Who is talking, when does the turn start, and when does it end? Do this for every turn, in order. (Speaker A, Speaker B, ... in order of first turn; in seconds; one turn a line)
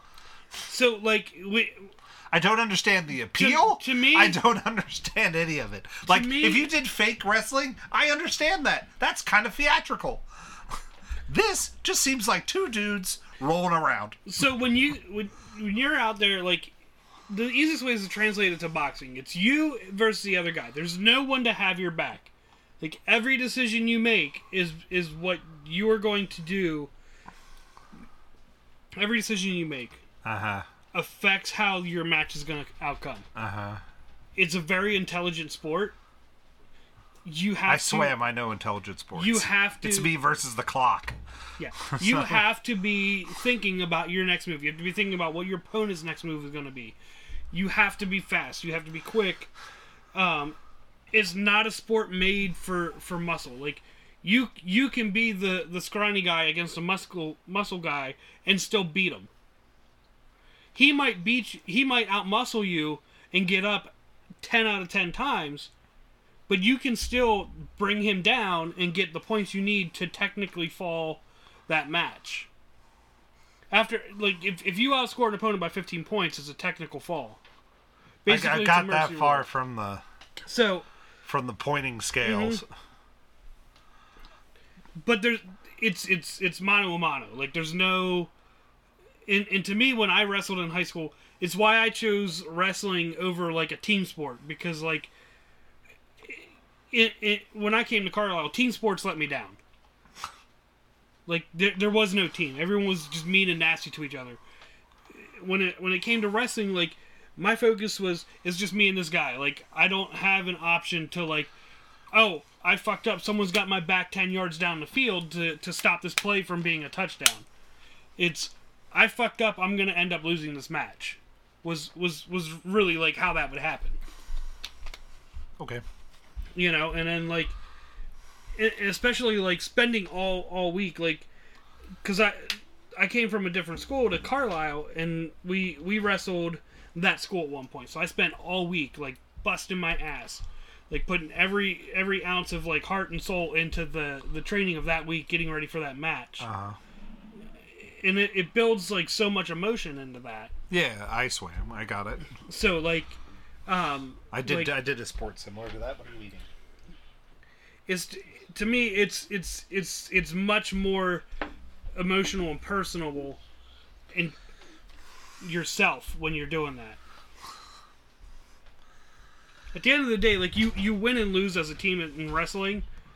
Speaker A: 0.7-1.9
Speaker B: 2.3-10.3
Speaker A: 3.3-4.4
Speaker A: 6.1-6.7
Speaker B: 11.3-14.2
Speaker A: 14.3-16.7
Speaker A: 17.3-26.9
Speaker A: 28.9-30.0
Speaker B: 30.2-30.7
Speaker A: 30.9-33.3
Speaker B: 33.4-33.8
Speaker A: 34.4-36.0
Speaker A: 37.2-38.2
Speaker B: 37.7-41.2
Speaker A: 39.1-40.1
Speaker A: 41.6-47.0
Speaker B: 41.9-42.4
Speaker A: 47.5-49.5
Speaker A: 50.1-50.6
Speaker A: 51.1-59.3
Speaker A: 60.8-65.7
Speaker A: 66.5-72.5
Speaker A: 73.7-77.4
Speaker A: 78.2-79.5
Speaker B: 78.3-80.0
Speaker A: 80.5-80.9
Speaker B: 81.2-82.7
Speaker A: 82.2-82.6
Speaker A: 85.0-88.3
Speaker A: 89.3-95.1
Speaker A: 96.2-99.6
Speaker A: 101.3-104.4
Speaker A: 105.1-111.5
Speaker A: 112.1-117.5
Speaker A: 118.2-124.0
Speaker B: 125.6-125.8
Speaker A: 126.5-127.6
Speaker A: 128.6-131.3
Speaker A: 132.0-146.5
Speaker B: 146.4-146.8
Speaker A: 147.7-150.5
Speaker B: 150.7-152.3
Speaker A: 152.5-154.8
Speaker B: 154.3-156.5
Speaker A: 157.9-161.2
Speaker A: 162.0-163.4
Speaker A: 165.4-167.0
Speaker A: 169.7-172.8